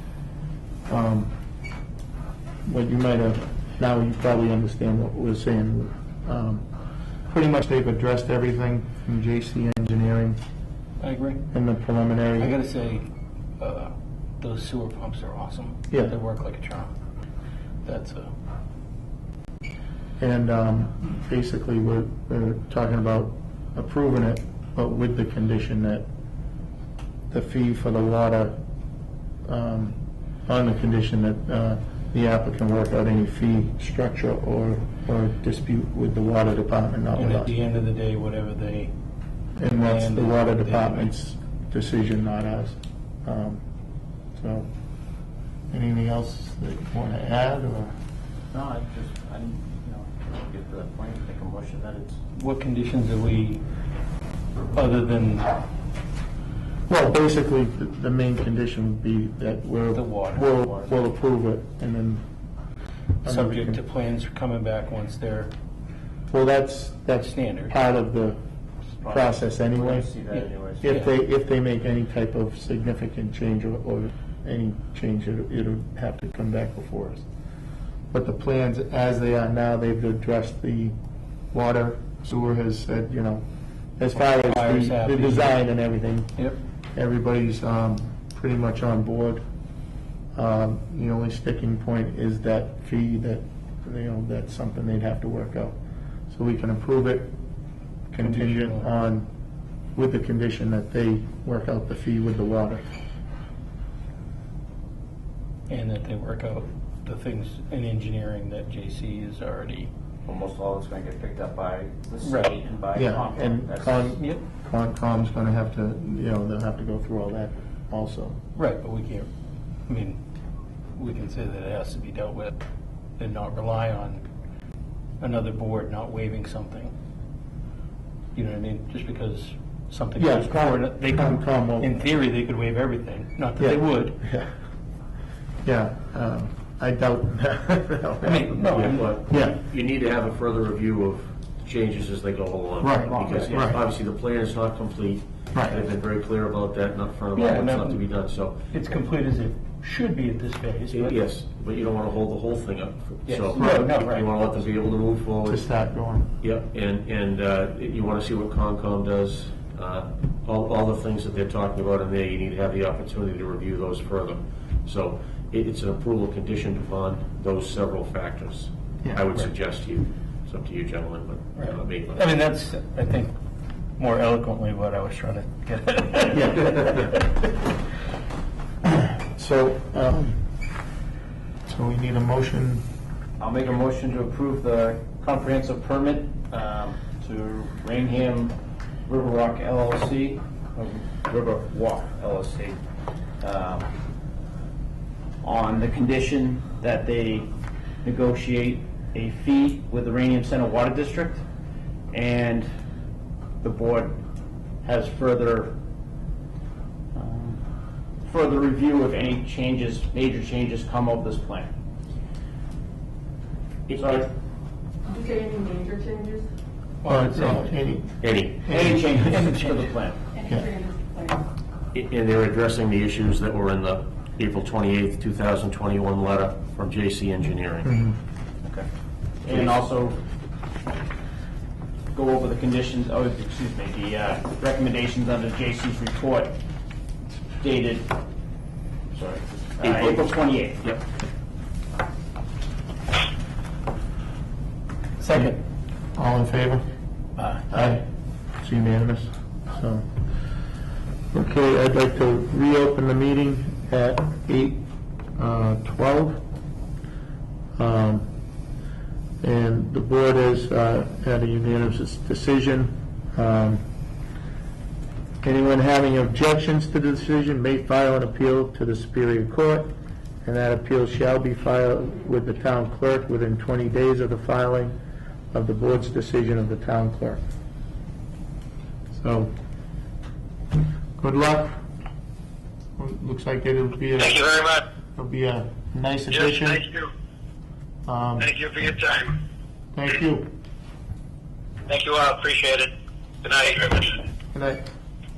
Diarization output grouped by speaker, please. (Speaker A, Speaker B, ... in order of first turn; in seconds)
Speaker A: 0.9-1.3, 2.6-6.6, 7.3-10.4, 11.5-12.5, 20.2-26.0, 27.3-28.5, 29.4-37.5, 39.6-43.6, 44.4-44.7, 45.7-48.0, 56.9-62.2, 63.2-63.8, 66.3-68.4, 69.0-70.1, 70.8-77.2, 78.1-80.9, 81.5-83.4, 84.0-86.3, 86.9-89.4, 90.3-95.7, 96.3-97.3, 98.1-99.3, 100.0-102.8, 112.9-118.4, 130.2-132.1, 133.6-134.5, 135.6-139.6, 142.8-143.8, 145.5-145.9, 153.6-153.9, 155.5-156.3, 176.3-177.0, 179.1-180.4, 181.7-182.8, 217.1-219.1, 227.8-228.2, 245.3-245.6, 246.1-246.8, 247.7-248.0, 248.6-250.1, 251.3-254.8, 255.4-256.4, 257.8-258.2, 259.4-263.8, 265.4-269.9, 270.4-274.9, 275.5-277.4, 279.1-279.5, 281.2-281.8, 283.0-284.4, 285.1-286.9, 288.1-288.5, 289.9-290.5, 294.5-294.8
Speaker B: 11.0-11.4, 12.4-13.0, 13.6-16.9, 17.8-18.3, 37.1-38.9, 39.7-41.1, 52.3-53.6, 54.7-55.5, 59.9-60.5, 63.2-65.5, 67.2-67.7, 70.3-71.1, 84.2-85.6, 98.2-98.8, 105.7-109.9, 112.2-112.5, 118.5-119.3, 119.9-120.2, 120.9-122.5, 123.2-124.2, 125.2-126.9, 128.3-134.2, 138.2-139.3, 147.3-148.0, 148.6-151.2, 153.2-154.6, 171.6-173.3, 174.0-177.5, 217.0-217.8, 218.9-219.9, 245.2-245.6, 247.4-248.0
Speaker C: 48.5-52.2, 60.6-60.9, 69.0-71.0, 110.2-114.1, 143.0-143.7, 183.4-192.8, 193.4-193.9, 195.4-197.5, 198.0-201.4, 202.1-202.7, 203.6-204.2, 204.8-205.8, 207.1-207.6, 208.2-211.7, 214.0-214.3, 218.7-220.2, 229.4-230.2, 232.1-236.6, 237.6-238.2, 239.1-240.8
Speaker D: 138.7-148.6, 150.9-155.7, 156.4-172.3, 213.9-214.3, 218.2-218.7, 221.9-228.0, 239.8-241.0
Speaker E: 215.1-216.4, 220.4-221.4
Speaker F: 284.2-284.8, 286.4-287.1, 288.4-289.4, 291.9-292.9, 293.4-294.2